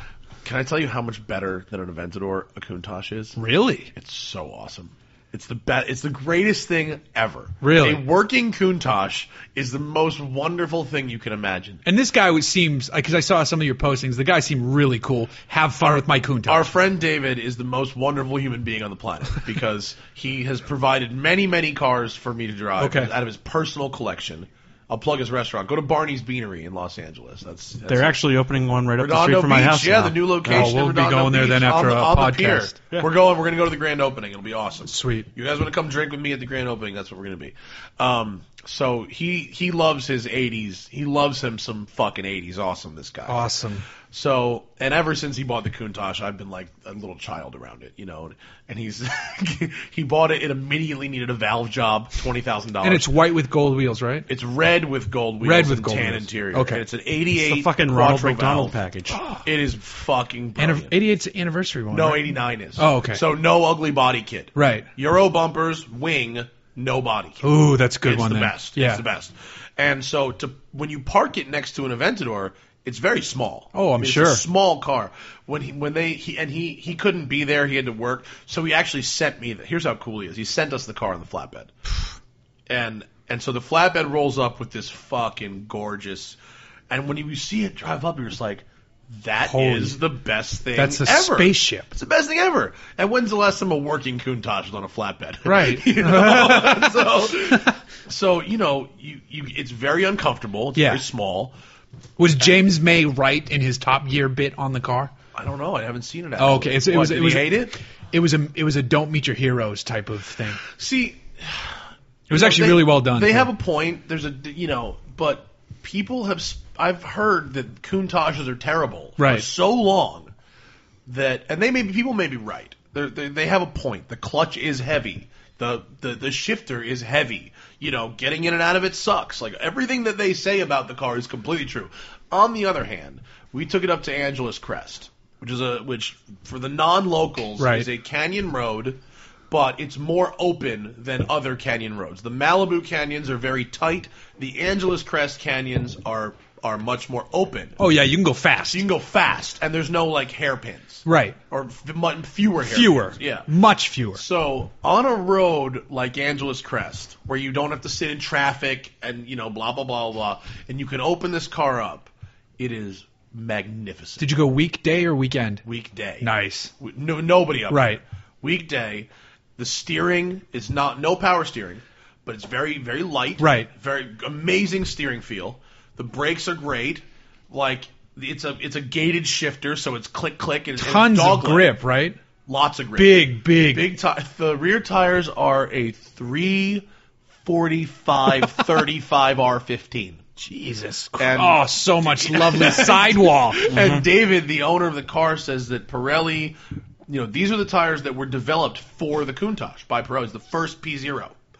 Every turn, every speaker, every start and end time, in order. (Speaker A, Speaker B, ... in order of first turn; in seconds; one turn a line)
Speaker A: 0.4-3.4
Speaker B: 3.4-3.9
Speaker A: 3.9-11.8
Speaker B: 7.6-8.0
Speaker B: 11.8-16.7
Speaker A: 15.9-28.2
Speaker B: 22.8-23.1
Speaker C: 27.9-30.7
Speaker A: 29.0-43.5
Speaker B: 30.5-32.7
Speaker B: 34.9-35.3
Speaker B: 43.3-43.8
Speaker A: 44.1-53.1
Speaker B: 52.8-54.3
Speaker A: 54.3-58.8
Speaker B: 55.4-56.8
Speaker C: 57.3-59.2
Speaker B: 59.1-59.4
Speaker A: 59.4-61.0
Speaker B: 60.6-63.2
Speaker A: 61.9-67.5
Speaker B: 64.5-64.9
Speaker B: 67.4-69.0
Speaker A: 68.0-81.7
Speaker B: 73.7-74.4
Speaker A: 82.7-86.4
Speaker A: 86.9-101.5
Speaker B: 89.4-90.0
Speaker B: 90.8-91.9
Speaker B: 95.4-97.7
Speaker B: 100.7-101.0
Speaker B: 102.2-105.1
Speaker A: 105.3-107.7
Speaker B: 106.4-107.6
Speaker B: 108.1-110.6
Speaker A: 110.7-111.8
Speaker B: 112.3-113.5
Speaker A: 112.3-120.3
Speaker B: 119.2-119.5
Speaker A: 121.1-139.0
Speaker B: 137.6-137.9
Speaker A: 139.5-147.8
Speaker B: 147.8-148.8
Speaker A: 148.7-153.5
Speaker B: 151.0-151.3
Speaker B: 152.6-154.2
Speaker A: 154.1-164.3
Speaker B: 164.2-165.6
Speaker A: 165.6-166.3
Speaker B: 166.2-166.7
Speaker A: 166.8-181.7
Speaker B: 167.7-168.0
Speaker B: 173.4-173.7
Speaker B: 180.8-182.2
Speaker A: 182.5-186.8
Speaker B: 182.9-183.9
Speaker A: 187.4-190.2
Speaker B: 190.4-193.7
Speaker A: 191.2-196.6
Speaker C: 193.7-194.0
Speaker A: 197.1-201.3